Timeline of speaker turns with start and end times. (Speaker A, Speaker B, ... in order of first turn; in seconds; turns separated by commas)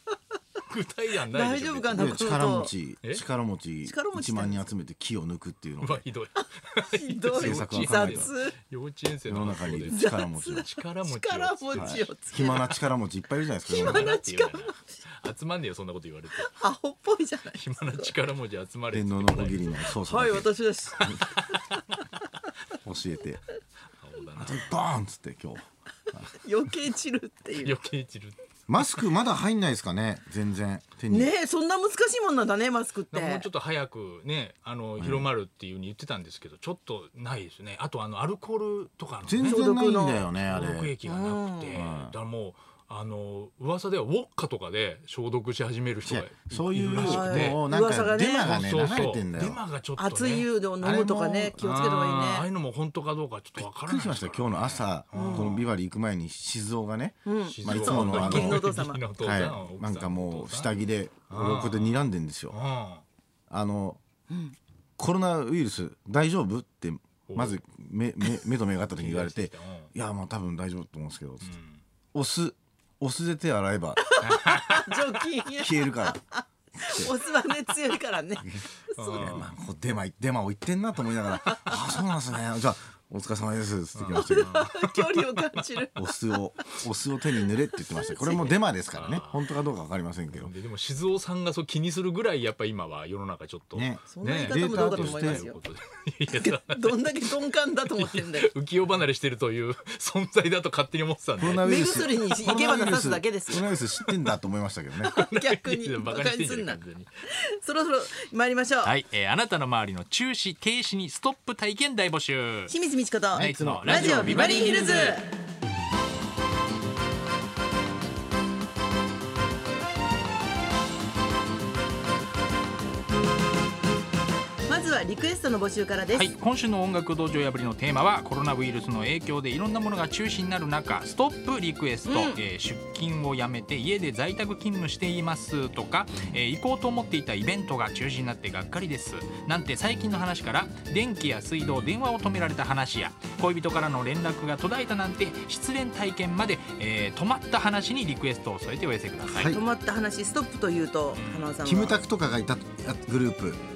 Speaker A: 0.7-2.4, Speaker B: 1.3-2.7, Speaker C: 1.9-6.0, Speaker B: 3.8-4.7, Speaker A: 5.8-12.1, Speaker B: 6.8-8.6, Speaker C: 7.3-8.3, Speaker C: 9.2-10.7, Speaker B: 9.9-12.8, Speaker C: 11.7-14.1, Speaker B: 13.7-14.9, Speaker A: 13.7-16.7, Speaker B: 16.3-18.1, Speaker A: 17.5-20.0, Speaker C: 18.9-21.2, Speaker B: 20.0-21.3, Speaker A: 21.0-22.1, Speaker C: 22.8-23.4, Speaker A: 24.0-24.7, Speaker C: 24.4-26.3, Speaker B: 26.3-27.8, Speaker A: 27.6-29.0, Speaker C: 28.7-31.3, Speaker B: 31.1-33.5, Speaker A: 33.1-39.6, Speaker C: 35.0-35.3, Speaker C: 39.2-41.0, Speaker B: 39.4-40.3, Speaker A: 40.3-47.6, Speaker B: 41.0-41.9, Speaker C: 41.7-42.1, Speaker C: 46.0-49.6, Speaker B: 46.9-49.0, Speaker A: 48.4-50.5, Speaker B: 50.0-52.5, Speaker C: 50.8-51.7, Speaker A: 51.6-55.7, Speaker C: 53.6-62.6, Speaker B: 55.1-55.5, Speaker B: 57.2-59.0, Speaker A: 57.4-60.8, Speaker A: 61.3-63.0, Speaker C: 63.5-64.0, Speaker B: 64.3-64.5, Speaker C: 65.0-71.5, Speaker A: 67.3-67.6, Speaker A: 68.9-69.9, Speaker A: 71.4-71.8, Speaker C: 72.1-74.1, Speaker B: 74.0-79.5, Speaker A: 74.2-75.1, Speaker C: 75.5-76.2, Speaker C: 76.8-77.1, Speaker C: 78.4-84.6, Speaker A: 79.0-79.5, Speaker B: 81.3-81.8, Speaker A: 83.9-85.9, Speaker B: 84.1-86.1, Speaker C: 86.0-90.5, Speaker B: 87.9-88.5, Speaker A: 88.9-89.6, Speaker A: 90.3-102.0, Speaker C: 93.7-95.5, Speaker B: 94.1-95.6, Speaker B: 96.3-98.5, Speaker C: 101.4-105.1, Speaker B: 101.6-103.7, Speaker B: 105.0-108.9, Speaker A: 105.1-107.1, Speaker A: 108.8-112.7, Speaker B: 112.7-115.3, Speaker C: 113.3-114.5, Speaker A: 113.3-115.2, Speaker B: 124.7-126.3, Speaker A: 126.1-149.5, Speaker B: 132.0-132.4, Speaker C: 149.3-149.6, Speaker B: 149.4-152.0, Speaker A: 151.1-151.5, Speaker C: 151.6-153.6